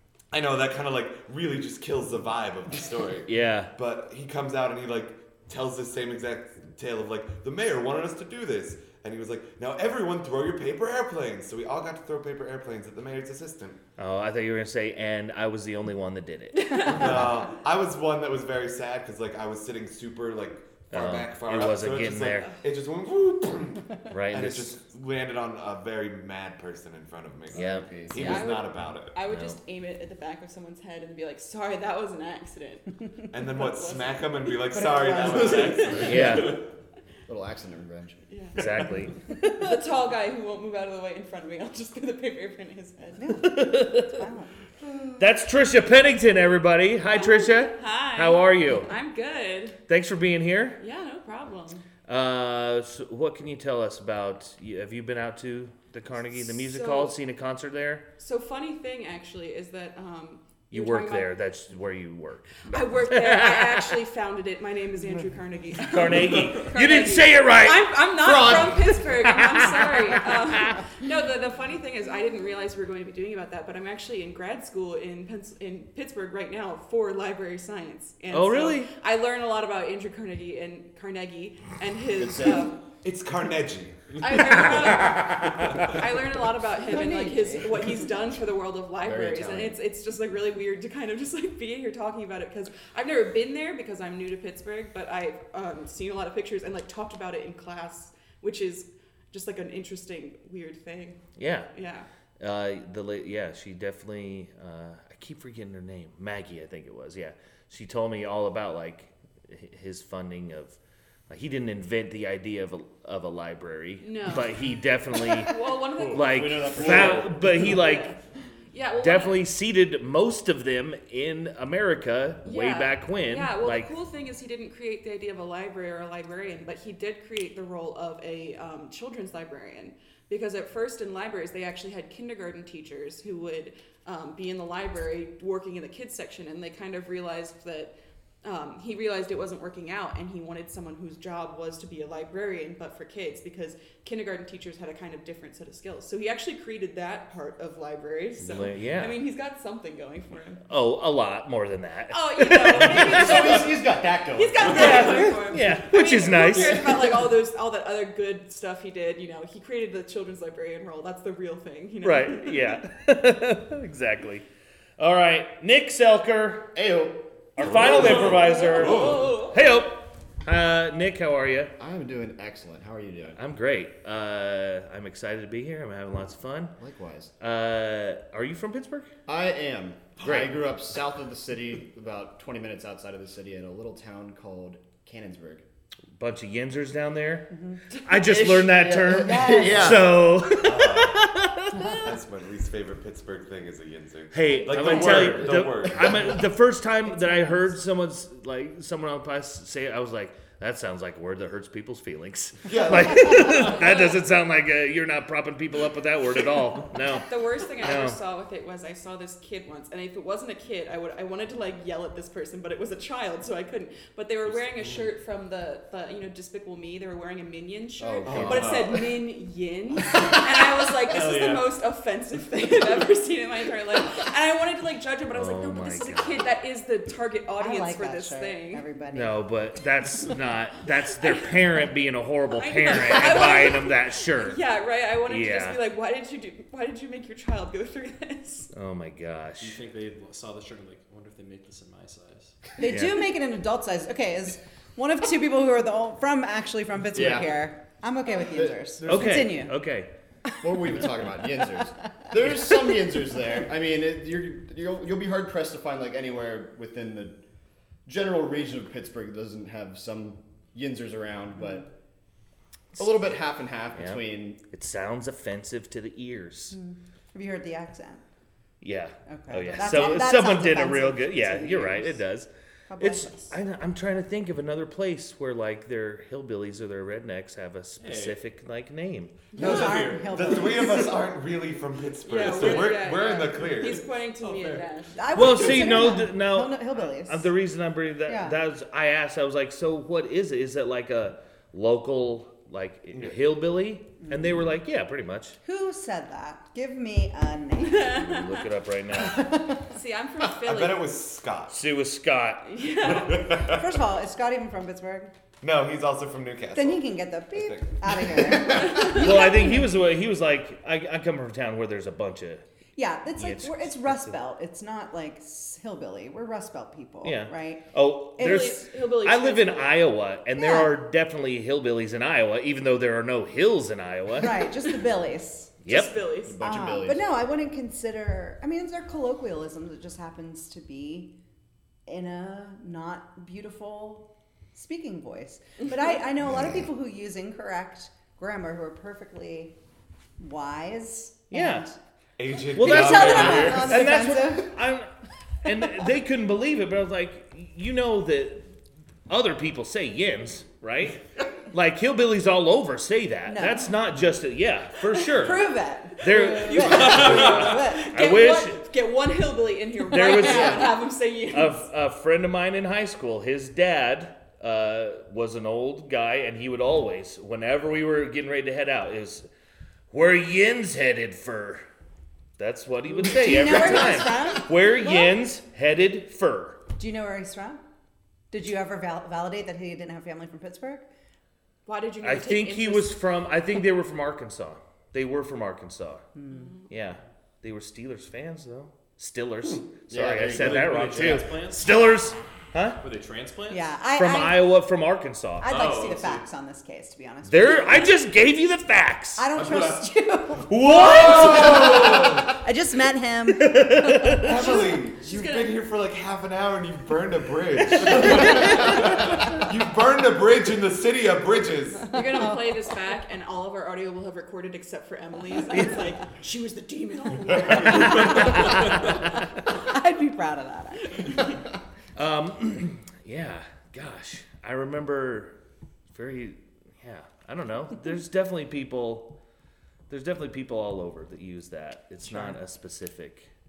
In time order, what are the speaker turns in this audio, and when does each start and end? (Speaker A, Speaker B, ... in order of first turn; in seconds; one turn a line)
Speaker A: 0.3-13.8
Speaker B: 3.3-3.7
Speaker B: 14.0-17.3
Speaker C: 16.6-17.1
Speaker A: 16.8-29.1
Speaker B: 20.9-22.5
Speaker C: 22.2-22.5
Speaker B: 24.1-24.8
Speaker D: 27.5-28.4
Speaker B: 27.5-28.4
Speaker C: 28.1-32.9
Speaker B: 29.3-29.6
Speaker A: 33.3-36.2
Speaker C: 33.5-36.1
Speaker E: 35.2-36.6
Speaker B: 36.0-36.6
Speaker D: 36.1-36.5
Speaker D: 37.3-38.6
Speaker C: 38.3-38.6
Speaker B: 38.6-39.5
Speaker C: 39.4-43.4
Speaker F: 43.2-44.5
Speaker B: 43.4-44.2
Speaker C: 44.8-45.2
Speaker B: 45.2-48.9
Speaker C: 47.1-49.8
Speaker B: 49.9-50.8
Speaker C: 50.8-51.8
Speaker B: 52.1-58.0
Speaker C: 56.3-57.1
Speaker C: 58.2-61.3
Speaker B: 60.7-64.0
Speaker C: 62.6-82.7
Speaker B: 65.8-70.8
Speaker D: 68.2-69.0
Speaker B: 78.3-78.9
Speaker D: 82.2-82.7
Speaker A: 83.0-84.2
Speaker C: 84.2-102.1
Speaker F: 86.8-88.0
Speaker D: 89.0-89.8
Speaker B: 101.4-101.7
Speaker B: 102.4-110.8
Speaker B: 111.3-118.1
Speaker C: 114.0-114.6
Speaker C: 115.1-118.2
Speaker D: 116.1-117.7
Speaker C: 118.7-119.4
Speaker B: 119.0-123.9
Speaker C: 122.4-150.6
Speaker B: 148.4-149.2
Speaker B: 150.7-153.6
Speaker C: 152.1-153.8
Speaker D: 152.8-155.2
Speaker C: 154.3-162.8
Speaker E: 154.6-155.4
Speaker B: 154.6-157.0
Speaker B: 162.0-164.4
Speaker B: 165.0-166.7
Speaker D: 166.7-169.3
Speaker B: 167.6-171.7
Speaker C: 167.9-169.7
Speaker D: 171.8-173.4
Speaker B: 173.3-176.8
Speaker D: 176.8-177.3
Speaker B: 177.4-179.1
Speaker D: 179.3-185.6
Speaker B: 180.2-180.5
Speaker B: 186.2-192.1
Speaker F: 187.5-187.8
Speaker D: 188.1-190.2
Speaker F: 189.1-190.1
Speaker A: 190.6-191.3
Speaker A: 191.9-196.4
Speaker B: 194.3-208.2
Speaker F: 194.5-195.4
Speaker F: 197.0-197.7
Speaker A: 202.6-203.7
Speaker C: 203.5-204.2
Speaker C: 207.3-228.8
Speaker E: 214.8-215.1
Speaker D: 218.0-218.9
Speaker A: 218.2-219.0
Speaker E: 221.0-221.7
Speaker B: 225.3-226.4
Speaker F: 227.6-229.4
Speaker B: 229.1-234.6
Speaker C: 232.5-238.7
Speaker B: 235.3-235.8
Speaker B: 238.7-239.8
Speaker E: 239.6-242.7
Speaker F: 242.8-249.7
Speaker B: 242.8-243.3
Speaker D: 247.1-247.7
Speaker D: 248.3-249.5
Speaker B: 249.0-250.1
Speaker D: 250.6-257.4
Speaker F: 252.5-252.9
Speaker D: 258.1-261.9
Speaker D: 262.9-264.6
Speaker B: 263.9-266.8
Speaker F: 266.7-268.2
Speaker B: 268.8-279.4
Speaker F: 269.3-272.2
Speaker F: 272.9-273.6
Speaker E: 278.0-278.4
Speaker E: 279.5-280.6
Speaker C: 279.5-279.8
Speaker F: 279.5-281.2
Speaker A: 279.6-284.1
Speaker C: 282.2-285.3
Speaker E: 282.4-283.0
Speaker E: 284.4-286.2
Speaker F: 285.1-287.5
Speaker B: 285.3-295.6
Speaker F: 288.2-288.6
Speaker F: 294.2-294.7
Speaker F: 295.6-298.1
Speaker C: 297.8-298.6
Speaker B: 298.0-299.6
Speaker F: 299.1-299.9
Speaker C: 299.9-301.1
Speaker A: 300.6-301.8
Speaker B: 301.7-302.7
Speaker C: 302.6-303.6
Speaker A: 303.1-303.8
Speaker F: 303.4-305.3
Speaker A: 305.6-308.6
Speaker F: 306.7-309.9
Speaker B: 308.8-312.6
Speaker C: 308.9-309.1
Speaker F: 312.9-317.8
Speaker B: 313.4-314.4
Speaker B: 317.2-324.7
Speaker C: 318.4-319.9
Speaker F: 320.6-320.9
Speaker F: 324.3-325.8
Speaker B: 325.8-326.1
Speaker C: 325.8-326.6
Speaker D: 326.4-327.3
Speaker F: 326.6-331.3
Speaker F: 332.1-339.8
Speaker F: 340.4-342.0
Speaker B: 341.5-341.9
Speaker A: 342.4-344.2
Speaker F: 342.7-344.8
Speaker B: 342.7-345.1
Speaker B: 345.6-348.7
Speaker B: 349.3-358.8
Speaker F: 353.5-353.9
Speaker F: 355.3-358.1
Speaker C: 356.2-361.8
Speaker E: 356.8-357.8
Speaker B: 360.1-361.0
Speaker F: 360.2-360.8
Speaker B: 361.5-369.5
Speaker B: 370.1-371.8
Speaker B: 372.6-376.8
Speaker F: 373.1-375.3
Speaker F: 376.9-377.8
Speaker F: 378.5-381.1
Speaker C: 381.9-383.2
Speaker B: 382.2-386.2
Speaker F: 386.3-386.7
Speaker C: 386.5-386.9
Speaker B: 386.9-393.0
Speaker D: 389.6-391.5
Speaker E: 390.5-391.9
Speaker E: 393.0-394.0
Speaker F: 393.7-394.7
Speaker B: 394.1-396.0
Speaker F: 395.6-398.1
Speaker E: 395.7-396.4
Speaker B: 397.4-399.5
Speaker F: 399.4-404.9
Speaker E: 399.5-400.1
Speaker B: 400.7-402.3
Speaker A: 401.7-402.2
Speaker B: 403.5-404.6
Speaker A: 404.4-412.1
Speaker C: 404.7-405.8
Speaker B: 407.9-409.0
Speaker F: 408.2-408.6
Speaker C: 412.1-419.2
Speaker B: 417.7-419.0
Speaker F: 417.8-421.6
Speaker E: 417.9-418.9
Speaker C: 421.2-421.4
Speaker B: 422.1-425.6
Speaker B: 426.1-429.4
Speaker B: 430.1-433.5
Speaker F: 432.2-432.6